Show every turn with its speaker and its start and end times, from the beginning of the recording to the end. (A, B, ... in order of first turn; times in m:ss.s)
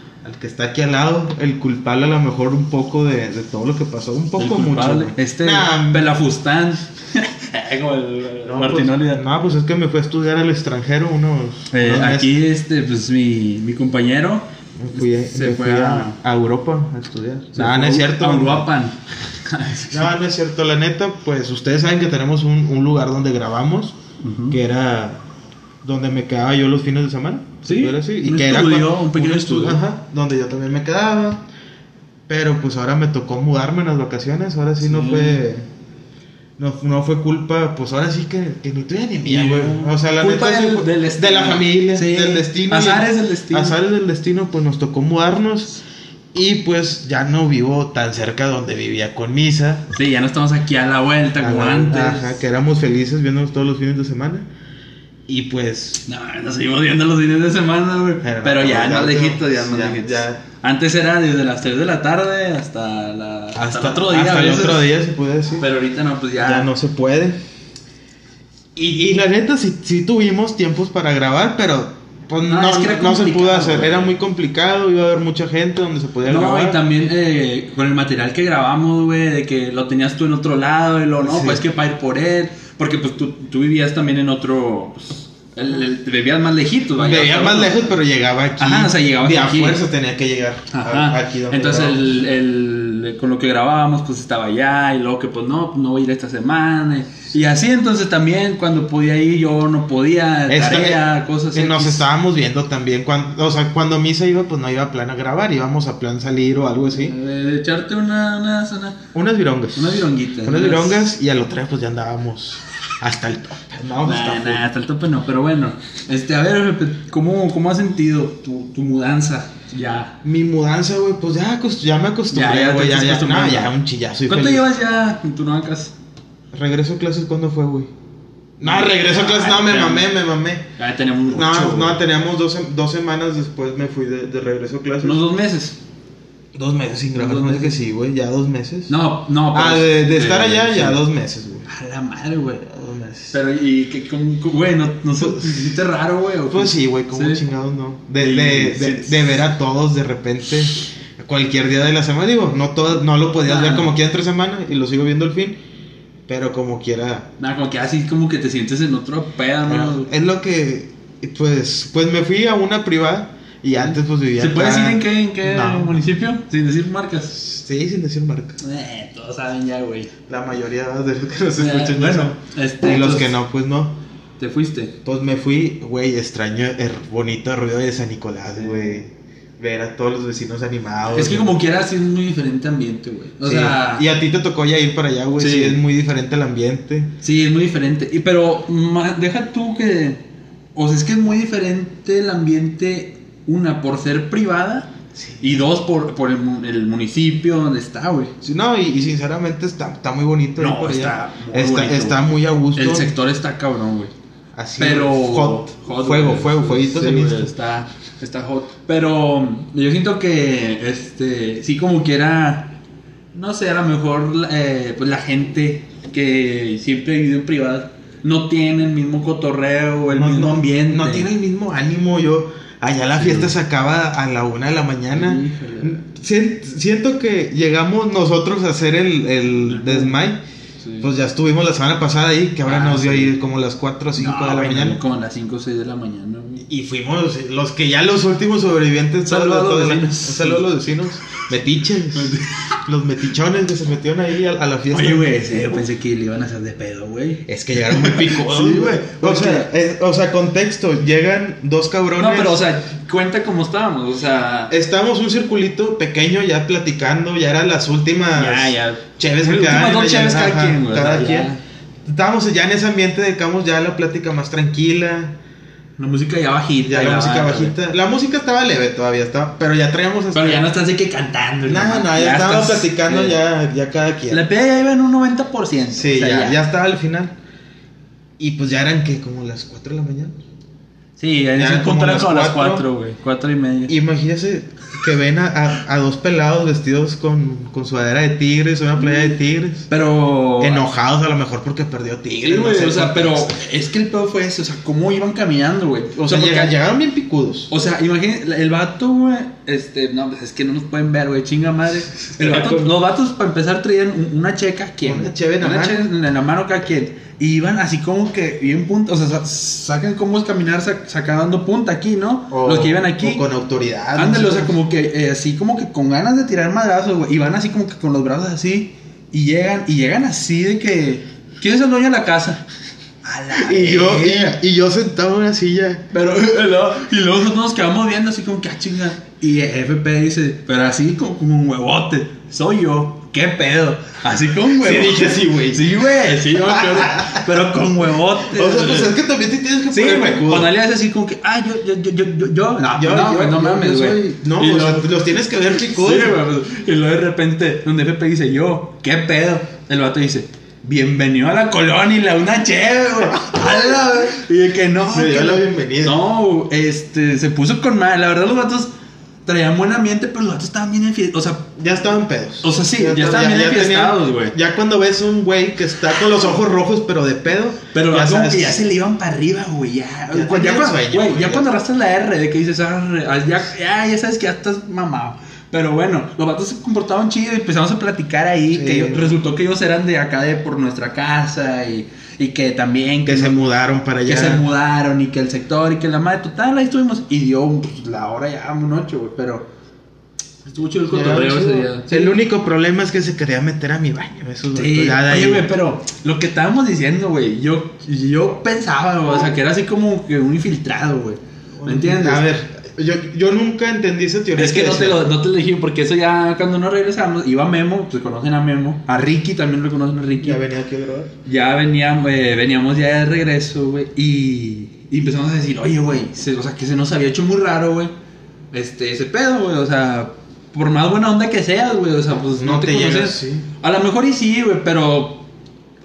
0:00.2-0:06.2 A
0:04.4-0:09.2 B
0:08.4-0:12.3 A
0:11.7-0:16.2 B
0:14.8-0:18.7 A
0:17.5-0:20.1 B
0:19.9-0:24.0 A
0:24.2-0:24.6 B
0:24.5-0:25.2 A
0:25.8-0:31.4 A
0:27.6-0:29.8 B
0:32.3-0:35.6 A
0:34.8-0:35.4 B
0:36.6-0:45.8 A
0:39.2-0:43.8 B
0:46.3-0:49.9 A
0:49.9-0:52.3 B
0:51.4-0:54.5 A
0:55.3-0:56.0 A
0:56.0-1:04.9 B
0:58.2-1:00.4 A
1:03.5-1:05.7 A
1:05.6-1:06.7 B
1:06.4-1:07.4 A
1:08.7-1:16.8 A
1:12.4-1:14.1 B
1:16.3-1:27.9 B
1:21.2-1:21.6 A
1:27.0-1:32.0 A
1:28.6-1:29.8 B
1:30.7-1:42.0 B
1:40.5-1:47.1 A
1:46.9-1:49.0 B
1:49.1-1:54.6 A
1:49.7-1:51.1 B
1:54.0-2:00.2 B
2:00.2-2:04.7 A
2:02.3-2:03.7 B
2:04.3-2:05.9 B
2:06.5-2:07.9 A
2:08.6-2:10.6 A
2:08.6-2:10.1 B
2:10.8-2:12.0 B
2:11.3-2:15.2 A
2:15.0-2:15.8 B
2:16.5-2:19.0 A
2:17.1-2:17.8 B
2:18.9-2:21.0 B
2:19.5-2:21.7 A
2:21.7-2:22.6 B
2:22.6-2:23.4 A
2:23.3-2:27.4 B
2:25.1-2:25.8 A
2:26.5-2:35.6 A
2:28.2-2:29.3 B
2:33.4-2:33.9 B
2:36.3-2:37.3 A
2:37.4-2:40.1 B
2:39.6-2:46.0 A
2:43.8-2:47.4 B
2:47.3-2:48.6 A
2:48.6-2:50.1 B
2:50.3-2:54.0 A
2:51.6-2:53.4 B
2:54.4-2:54.9 B
2:55.0-3:01.6 A
2:58.6-2:59.0 B
3:01.1-3:04.0 B
3:03.4-3:07.1 A
3:05.4-3:05.8 B
3:07.2-3:10.2 B
3:10.7-3:18.3 B
3:15.2-3:15.6 A
3:18.4-3:23.1 A
3:20.6-3:24.1 B
3:24.5-3:27.5 A
3:24.8-3:32.8 B
3:33.3-3:41.3 B
3:40.1-3:50.4 A
3:43.1-3:43.5 B
3:45.1-3:46.0 B
3:49.6-3:50.2 B
3:50.8-3:51.1 B
3:51.0-3:55.0 A
3:52.6-3:53.4 B
3:54.2-3:56.6 B
3:56.6-4:05.6 A
3:59.2-4:00.7 B
4:02.1-4:02.6 B
4:04.9-4:09.7 B
4:07.4-4:12.6 A
4:12.2-4:14.7 B
4:14.7-4:21.5 A
4:18.3-4:21.6 B
4:22.0-4:25.4 A
4:26.0-4:27.8 B
4:26.8-4:30.7 A
4:30.3-4:33.4 B
4:31.6-4:34.4 A
4:34.3-4:36.6 B
4:35.9-4:37.3 A
4:38.4-4:40.4 A
4:41.2-4:43.9 B
4:41.6-4:42.8 A
4:43.9-4:49.9 A
4:49.9-4:50.8 B
4:50.6-4:53.6 A
4:52.4-4:56.8 B
4:56.2-4:57.7 A
4:57.7-5:13.4 B
5:02.3-5:02.9 A
5:05.0-5:06.1 A
5:12.5-5:14.8 A
5:14.1-5:22.6 B
5:23.2-5:24.6 B
5:23.5-5:26.0 A
5:26.1-5:39.1 B
5:34.8-5:37.6 A
5:38.4-5:40.7 A
5:39.9-5:45.1 B
5:42.9-5:46.4 A
5:45.7-5:58.9 B
5:53.3-5:54.0 A
5:55.1-5:56.2 A
5:59.4-6:01.7 B
6:01.8-6:08.8 A
6:02.6-6:04.5 B
6:07.9-6:23.6 B
6:10.3-6:11.7 A
6:18.7-6:19.4 A
6:23.2-6:24.6 A
6:24.2-6:29.7 B
6:30.6-6:32.4 B
6:31.1-6:35.7 A
6:34.7-6:42.5 B
6:41.8-6:45.2 A
6:44.6-6:50.6 B
6:50.4-6:51.3 A
6:51.4-6:58.1 B
6:58.7-7:05.5 B
7:02.6-7:03.6 A